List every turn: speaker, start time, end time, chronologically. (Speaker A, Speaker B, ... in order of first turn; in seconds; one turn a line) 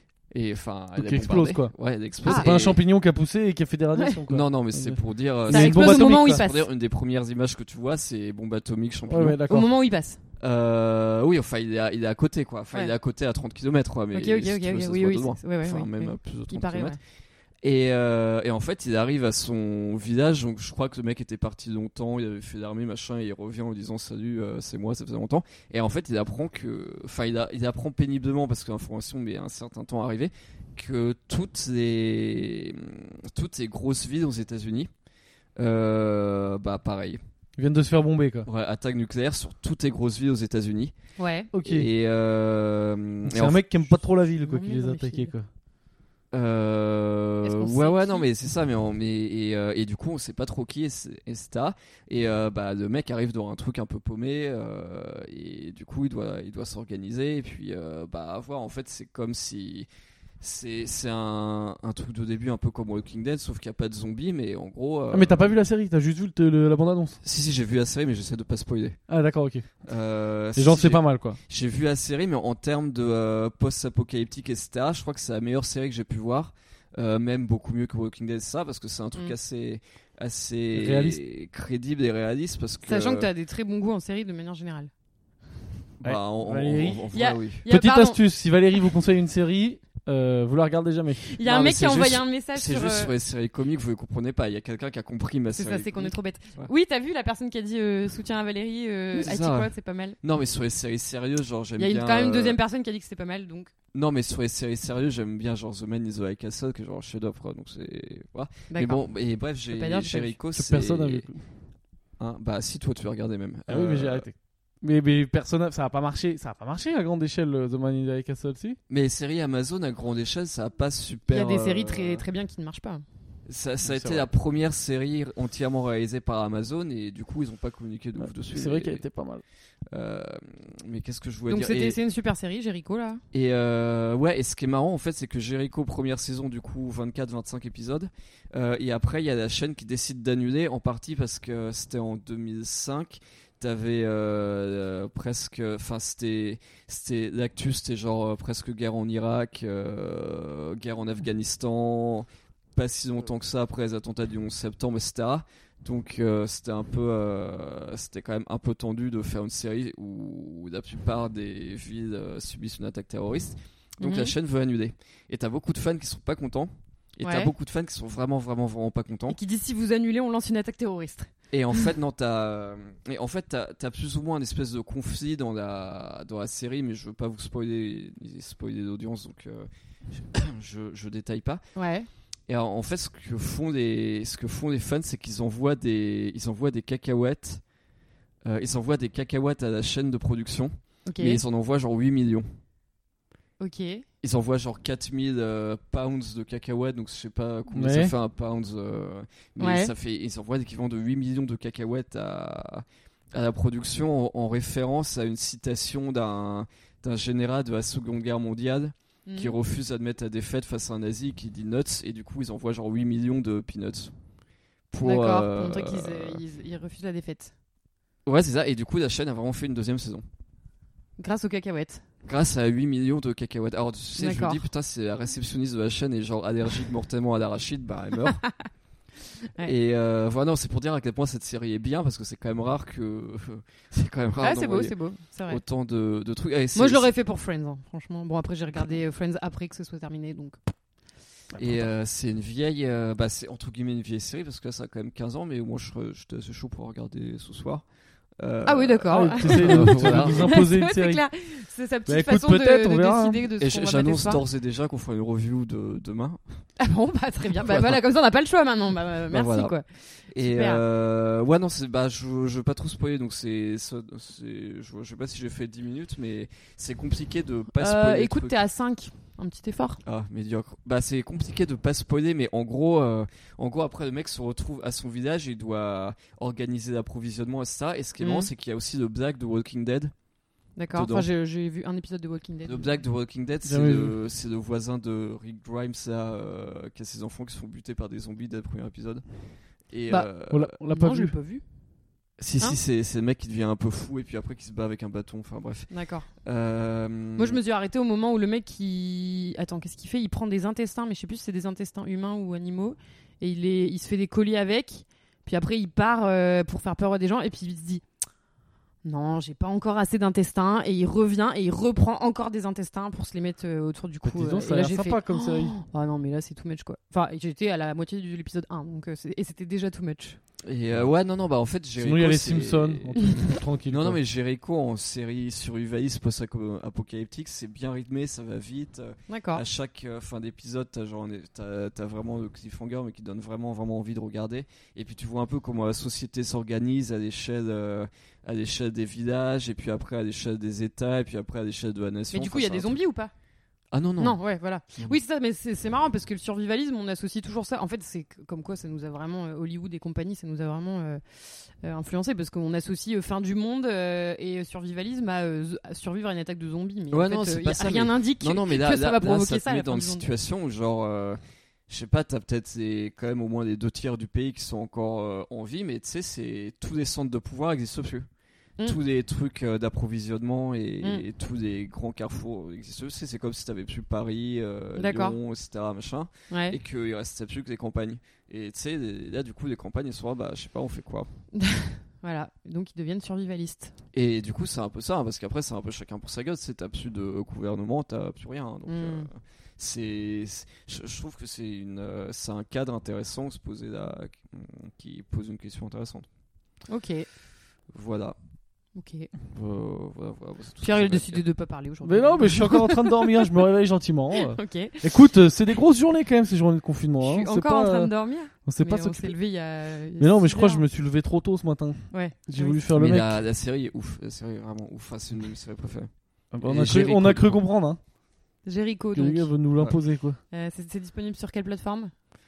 Speaker A: 0.3-2.8
Speaker B: 0.9-1.7
Speaker B: 2.2-6.4
Speaker C: 2.2-2.5
Speaker A: 4.3-9.4
Speaker C: 5.5-6.7
Speaker B: 9.1-9.7
Speaker C: 9.5-10.2
Speaker A: 10.4-16.9
Speaker C: 14.1-17.0
Speaker A: 17.6-34.9
Speaker A: 35.6-37.2
Speaker B: 37.6-38.5
Speaker A: 38.5-40.9
Speaker C: 41.2-41.5
Speaker B: 41.5-41.9
Speaker A: 41.6-43.7
Speaker B: 43.2-45.5
Speaker C: 44.4-45.3
Speaker A: 46.3-59.9
Speaker C: 47.4-48.2
Speaker A: 60.4-65.5
Speaker B: 65.1-67.2
Speaker A: 67.2-69.0
Speaker B: 69.1-69.7
Speaker A: 69.9-83.3
Speaker B: 70.5-71.4
Speaker B: 80.7-81.2
Speaker C: 82.9-84.9
Speaker A: 86.0-87.6
Speaker B: 86.0-87.1
Speaker C: 87.1-88.2
Speaker B: 87.7-91.4
Speaker C: 91.3-93.1
Speaker A: 91.4-96.7
Speaker C: 95.5-100.2
Speaker A: 99.1-99.7
Speaker A: 100.2-102.6
Speaker C: 101.8-103.7
Speaker A: 103.9-111.2
Speaker C: 108.7-109.0
Speaker C: 109.7-110.3
Speaker B: 110.5-111.4
Speaker A: 112.2-114.2
Speaker B: 113.7-118.8
Speaker A: 118.9-122.2
Speaker C: 121.3-123.0
Speaker A: 123.5-129.0
Speaker B: 123.8-124.3
Speaker B: 128.2-129.4
Speaker A: 129.9-132.0
Speaker C: 131.5-133.2
Speaker A: 133.3-169.4
Speaker C: 164.0-164.3
Speaker C: 167.2-167.5
Speaker C: 169.3-171.3
Speaker A: 171.5-181.6
Speaker C: 181.8-182.1
Speaker A: 182.5-187.6
Speaker A: 188.4-192.5
Speaker C: 191.1-191.4
Speaker C: 193.6-194.0
Speaker A: 194.2-214.1
Speaker B: 197.7-198.1
Speaker C: 199.6-199.9
Speaker C: 209.3-209.5
Speaker A: 214.9-216.4
Speaker C: 215.0-217.5
Speaker A: 218.2-220.2
Speaker C: 221.2-222.0
Speaker A: 222.2-228.4
Speaker C: 224.2-224.6
Speaker A: 229.6-234.9
Speaker C: 234.4-235.6
Speaker A: 235.5-237.1
Speaker C: 236.8-240.6
Speaker B: 241.5-241.9
Speaker A: 241.6-247.8
Speaker A: 248.4-250.7
Speaker C: 248.6-254.4
Speaker B: 249.1-251.2
Speaker B: 252.1-253.4
Speaker A: 253.6-256.4
Speaker C: 256.8-260.8
Speaker A: 257.5-258.0
Speaker A: 259.3-259.8
Speaker A: 260.3-268.6
Speaker C: 267.8-270.0
Speaker A: 270.0-280.1
Speaker C: 278.2-278.5
Speaker C: 280.8-283.0
Speaker A: 280.9-281.3
Speaker A: 282.6-289.2
Speaker B: 283.6-284.2
Speaker A: 289.9-290.7
Speaker B: 290.5-291.3
Speaker C: 290.8-291.6
Speaker A: 292.4-295.9
Speaker C: 295.9-296.3
Speaker A: 296.4-297.6
Speaker C: 297.4-308.0
Speaker C: 309.0-320.4
Speaker B: 314.2-315.8
Speaker A: 320.7-343.0
Speaker B: 322.0-324.2
Speaker C: 329.3-329.6
Speaker C: 342.3-343.3
Speaker A: 343.9-344.4
Speaker C: 344.2-360.2
Speaker A: 357.1-368.3
Speaker A: 368.8-381.3
Speaker C: 375.0-375.4
Speaker C: 376.5-376.8
Speaker C: 381.5-383.9
Speaker A: 384.1-396.3
Speaker C: 388.9-389.3
Speaker C: 396.9-397.3
Speaker A: 397.9-398.4
Speaker C: 398.9-399.3
Speaker A: 399.5-401.4
Speaker C: 400.8-403.5
Speaker B: 402.0-408.1
Speaker C: 404.5-405.2
Speaker C: 407.2-410.8
Speaker B: 408.7-409.4
Speaker B: 410.2-413.4
Speaker C: 412.1-412.8
Speaker A: 412.9-416.1
Speaker B: 416.5-418.0
Speaker A: 416.6-417.6
Speaker C: 418.6-419.5
Speaker B: 419.1-420.4
Speaker C: 420.5-422.1